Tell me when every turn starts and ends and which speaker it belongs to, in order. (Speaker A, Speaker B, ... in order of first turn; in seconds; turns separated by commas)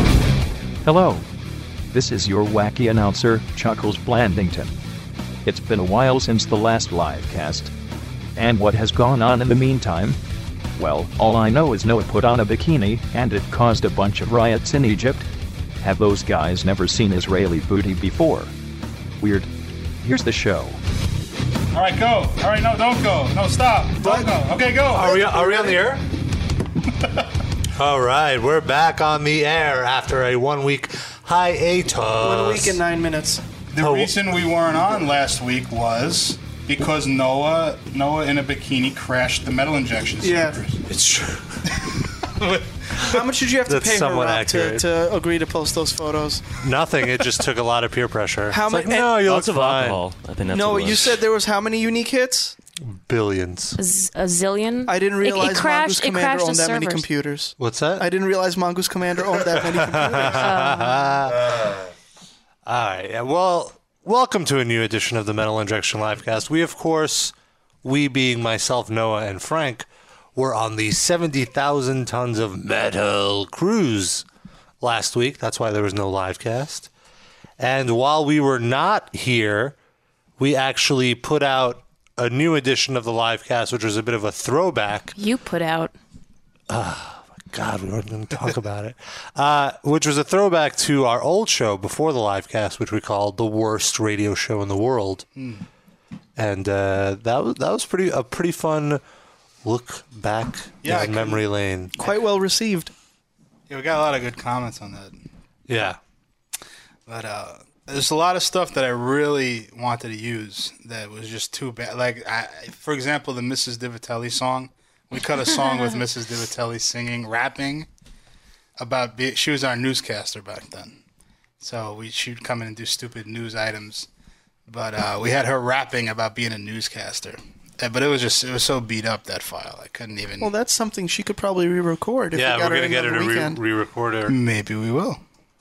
Speaker A: 0.8-1.2, Speaker A: 1.9-4.8, Speaker A: 5.4-7.7, Speaker A: 8.3-10.2, Speaker A: 10.8-15.3, Speaker A: 15.8-18.5, Speaker A: 19.2-20.8, Speaker B: 21.7-25.7, Speaker C: 24.0-24.3, Speaker C: 24.9-26.0, Speaker C: 27.8-32.8, Speaker D: 32.2-33.4, Speaker B: 33.7-40.8, Speaker C: 33.8-34.2, Speaker D: 40.2-40.6, Speaker C: 40.9-41.6, Speaker B: 42.4-43.2, Speaker D: 43.0-46.4, Speaker C: 43.6-44.9, Speaker C: 46.6-50.0, Speaker D: 48.5-49.2, Speaker E: 49.2-51.2, Speaker D: 50.5-52.5, Speaker C: 52.8-53.8, Speaker F: 53.8-57.0, Speaker D: 54.9-60.5, Speaker C: 57.6-58.1, Speaker C: 59.8-61.8, Speaker F: 60.3-61.2, Speaker C: 62.6-74.2, Speaker C: 74.8-76.9, Speaker C: 77.6-79.8, Speaker C: 80.4-85.1, Speaker F: 85.2-85.9, Speaker C: 86.7-95.2, Speaker B: 95.4-95.6, Speaker C: 96.3-99.0, Speaker C: 99.6-102.0, Speaker B: 100.8-101.4, Speaker D: 102.0-102.9, Speaker B: 103.7-105.2, Speaker C: 105.7-106.0, Speaker B: 107.1-117.9, Speaker B: 118.8-121.0, Speaker B: 121.6-124.1, Speaker B: 124.7-130.5, Speaker D: 130.4-133.6, Speaker C: 132.3-134.3, Speaker B: 134.3-135.2